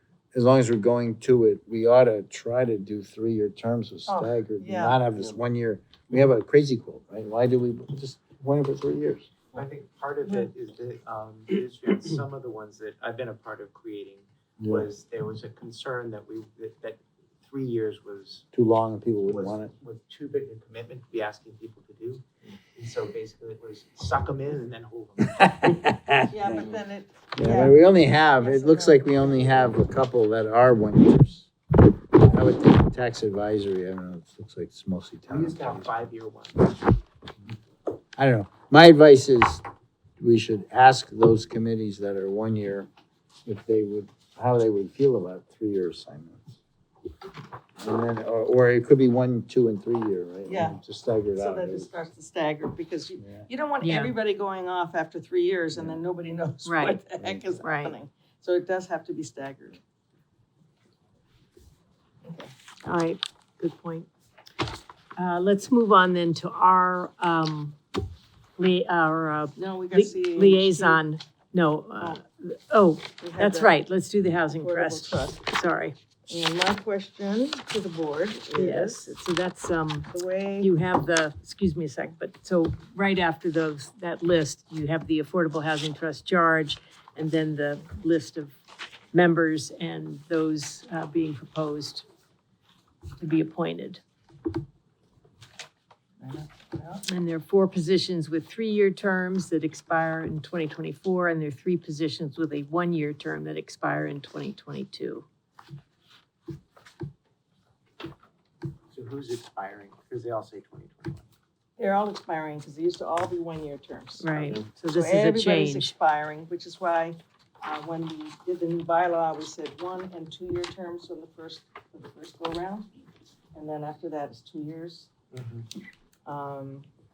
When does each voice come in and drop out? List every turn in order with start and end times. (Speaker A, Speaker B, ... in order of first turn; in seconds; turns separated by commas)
Speaker A: 0.3-9.3, Speaker B: 4.1-5.0, Speaker C: 9.6-18.4, Speaker A: 14.6-14.9, Speaker A: 18.5-19.7, Speaker C: 19.3-25.4, Speaker A: 25.2-26.8, Speaker B: 26.3-29.6, Speaker A: 27.4-31.5, Speaker A: 32.1-35.9, Speaker C: 35.3-36.9, Speaker A: 38.2-39.6, Speaker A: 40.2-42.9, Speaker A: 43.5-46.6, Speaker A: 47.8-51.9, Speaker B: 50.5-50.8, Speaker B: 51.4-59.8, Speaker A: 53.2-53.5, Speaker D: 53.8-54.2, Speaker D: 56.6-57.0, Speaker D: 57.6-58.0, Speaker B: 62.2-62.5, Speaker D: 62.8-64.1, Speaker D: 65.2-67.8, Speaker D: 68.6-76.0, Speaker B: 69.6-71.0, Speaker B: 73.2-73.8, Speaker B: 74.5-75.4, Speaker B: 76.3-79.1, Speaker D: 78.5-88.5, Speaker B: 80.1-80.7, Speaker D: 89.1-92.1, Speaker D: 93.2-94.0, Speaker B: 96.2-97.0, Speaker D: 97.1-105.3, Speaker C: 108.9-111.2, Speaker B: 111.8-114.3, Speaker D: 114.2-115.9, Speaker B: 114.9-122.9, Speaker B: 123.5-125.1, Speaker C: 125.3-125.7, Speaker B: 126.3-126.9